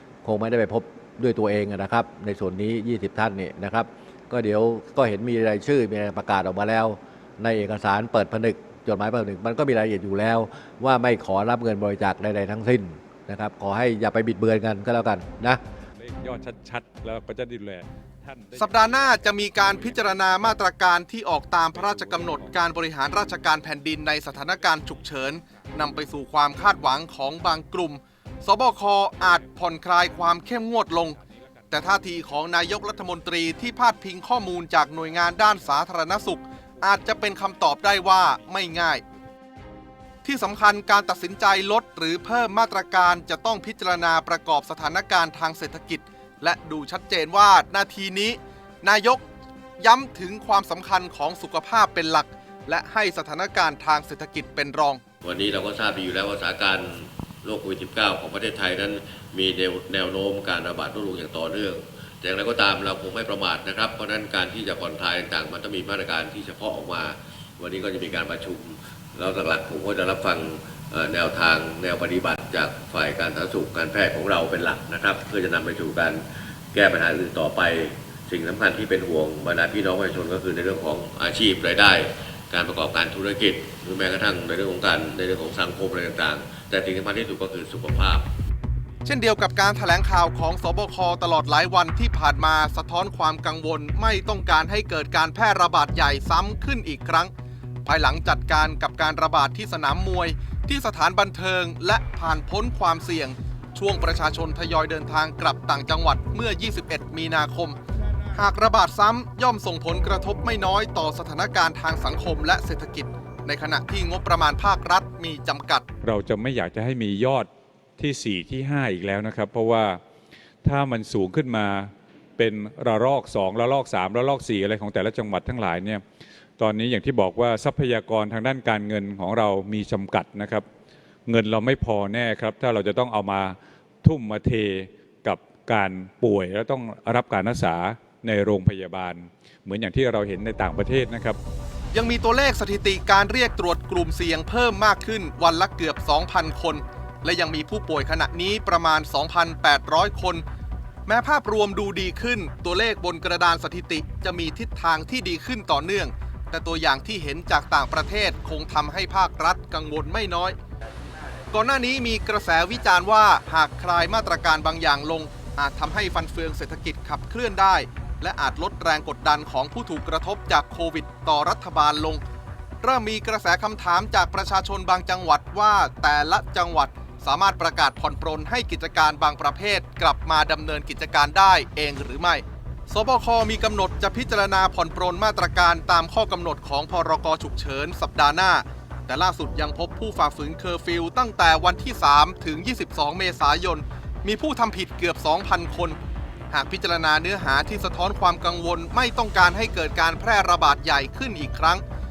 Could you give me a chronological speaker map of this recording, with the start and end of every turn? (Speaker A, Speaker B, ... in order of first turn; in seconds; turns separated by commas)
Speaker A: 0.2-15.6, Speaker B: 16.0-20.5, Speaker C: 18.6-31.2, Speaker B: 21.7-22.6, Speaker B: 31.2-31.7, Speaker C: 31.7-39.0, Speaker C: 40.2-49.2, Speaker C: 49.8-55.0, Speaker D: 55.2-88.3, Speaker C: 89.0-97.3, Speaker C: 97.9-107.8, Speaker C: 108.3-115.8, Speaker B: 116.0-120.0, Speaker B: 120.6-126.0, Speaker B: 126.6-130.7, Speaker B: 131.3-141.4, Speaker C: 141.9-150.4, Speaker C: 151.1-160.6, Speaker C: 161.5-172.2, Speaker C: 172.8-196.0, Speaker C: 196.5-201.8